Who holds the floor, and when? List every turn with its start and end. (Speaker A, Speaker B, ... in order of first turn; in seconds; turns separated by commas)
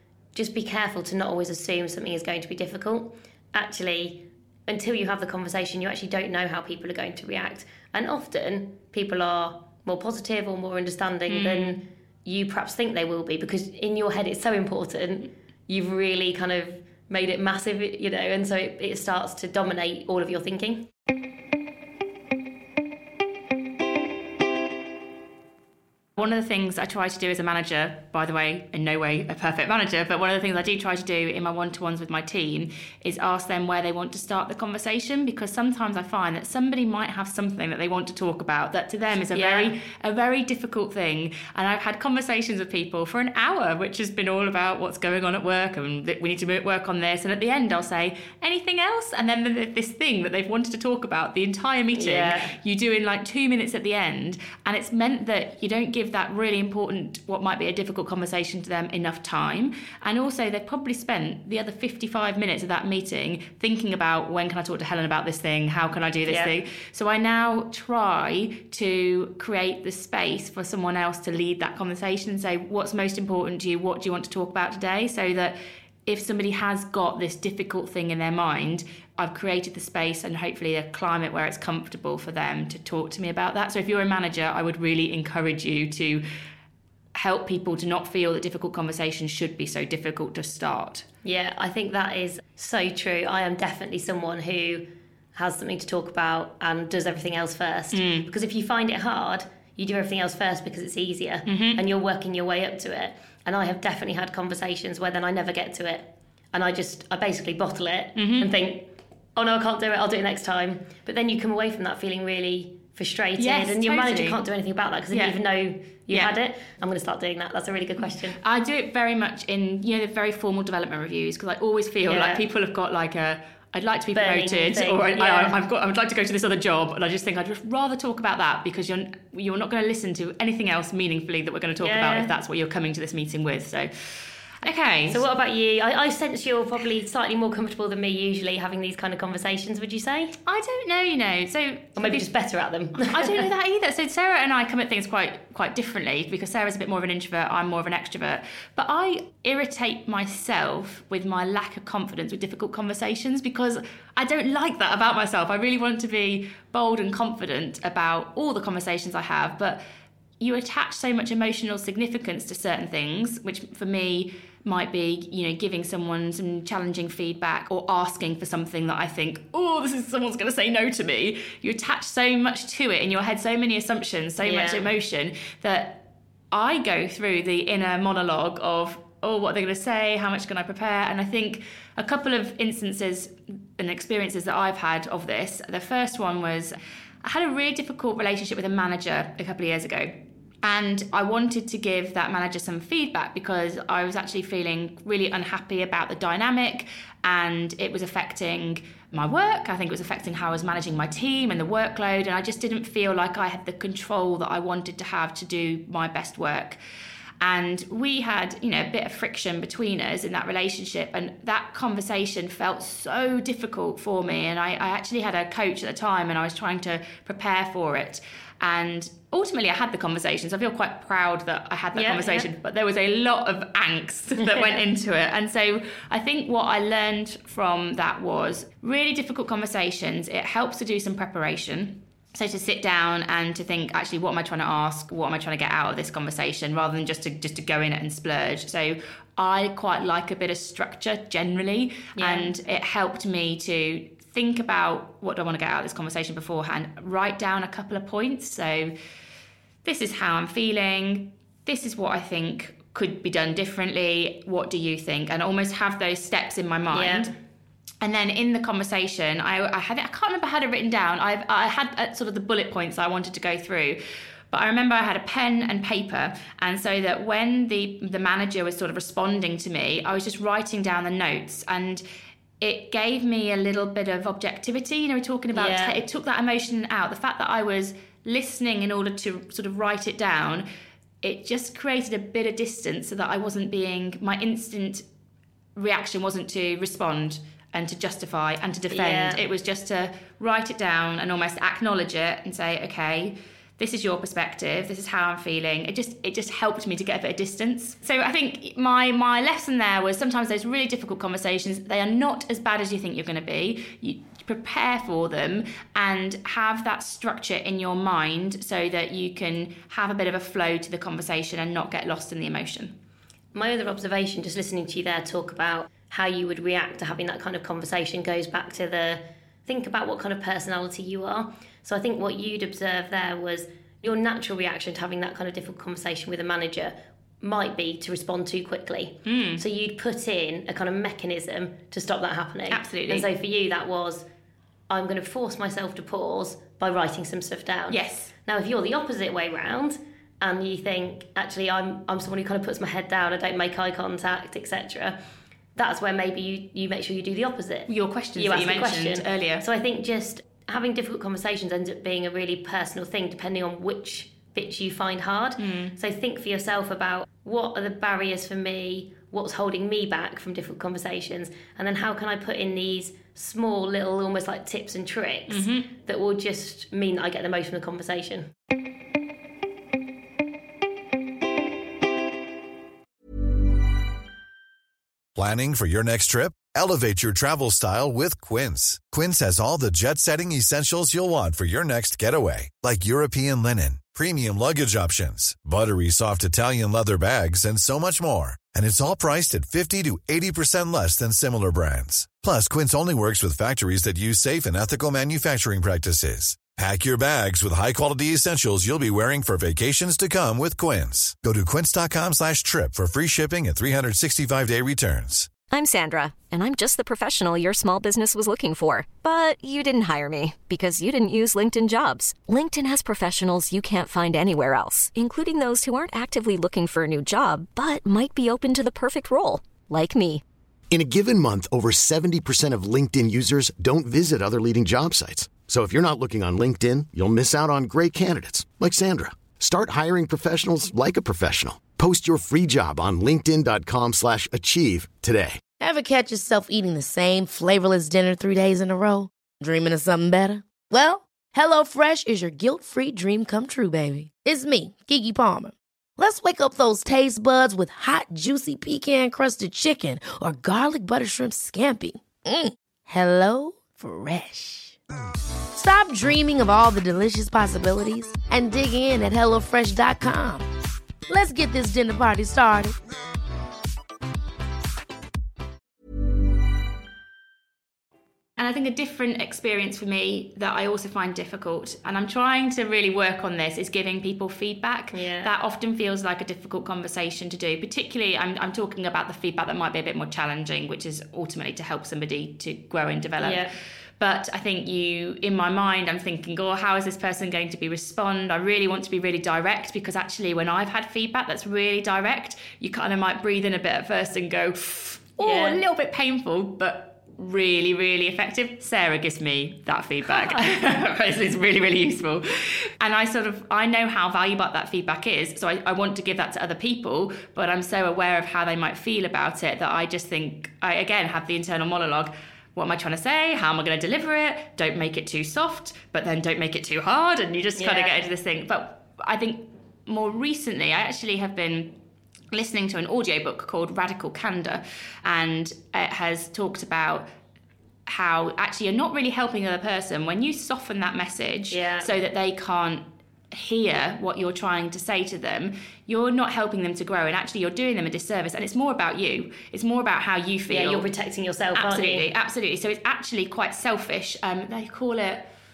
Speaker A: 0.3-20.9, Speaker B: 11.3-11.8, Speaker B: 26.2-86.2, Speaker A: 39.3-39.8, Speaker A: 52.0-52.5, Speaker A: 66.3-66.5, Speaker B: 87.2-91.1, Speaker A: 91.2-118.4, Speaker B: 97.9-98.3, Speaker B: 101.5-101.8, Speaker B: 108.2-108.5, Speaker B: 113.4-114.4, Speaker B: 115.1-115.4, Speaker B: 118.4-133.9, Speaker A: 122.1-122.4, Speaker A: 124.1-125.5, Speaker A: 131.8-132.3, Speaker B: 134.6-135.2, Speaker A: 135.1-140.3, Speaker B: 140.5-142.3, Speaker A: 142.0-143.4, Speaker B: 143.0-159.8, Speaker B: 160.4-190.1, Speaker A: 174.4-174.9, Speaker B: 190.6-206.8, Speaker B: 207.4-248.9, Speaker A: 221.9-222.5, Speaker A: 224.4-224.7, Speaker A: 242.2-242.5, Speaker B: 249.8-257.3, Speaker A: 256.9-257.3, Speaker B: 258.0-264.0, Speaker B: 264.5-272.0, Speaker B: 272.6-280.7, Speaker A: 275.6-276.0, Speaker B: 281.2-285.1, Speaker B: 285.8-312.9, Speaker A: 288.9-289.4, Speaker A: 313.5-334.3, Speaker B: 329.3-329.6, Speaker B: 332.7-333.3, Speaker A: 334.9-345.2, Speaker B: 337.9-338.3, Speaker A: 345.8-368.5, Speaker B: 347.9-349.6, Speaker B: 355.6-356.0, Speaker B: 365.5-365.9, Speaker C: 375.4-405.5, Speaker D: 405.7-420.4, Speaker E: 420.9-435.6, Speaker F: 435.8-455.0, Speaker F: 455.8-460.7, Speaker F: 461.3-463.0, Speaker B: 468.6-483.7, Speaker A: 475.1-475.5, Speaker A: 483.4-483.7, Speaker B: 484.2-521.9, Speaker A: 495.4-495.8, Speaker A: 500.4-500.6, Speaker A: 517.8-518.1, Speaker B: 522.5-527.3, Speaker B: 528.1-541.1, Speaker A: 531.7-532.1, Speaker A: 540.7-542.3, Speaker B: 541.7-545.4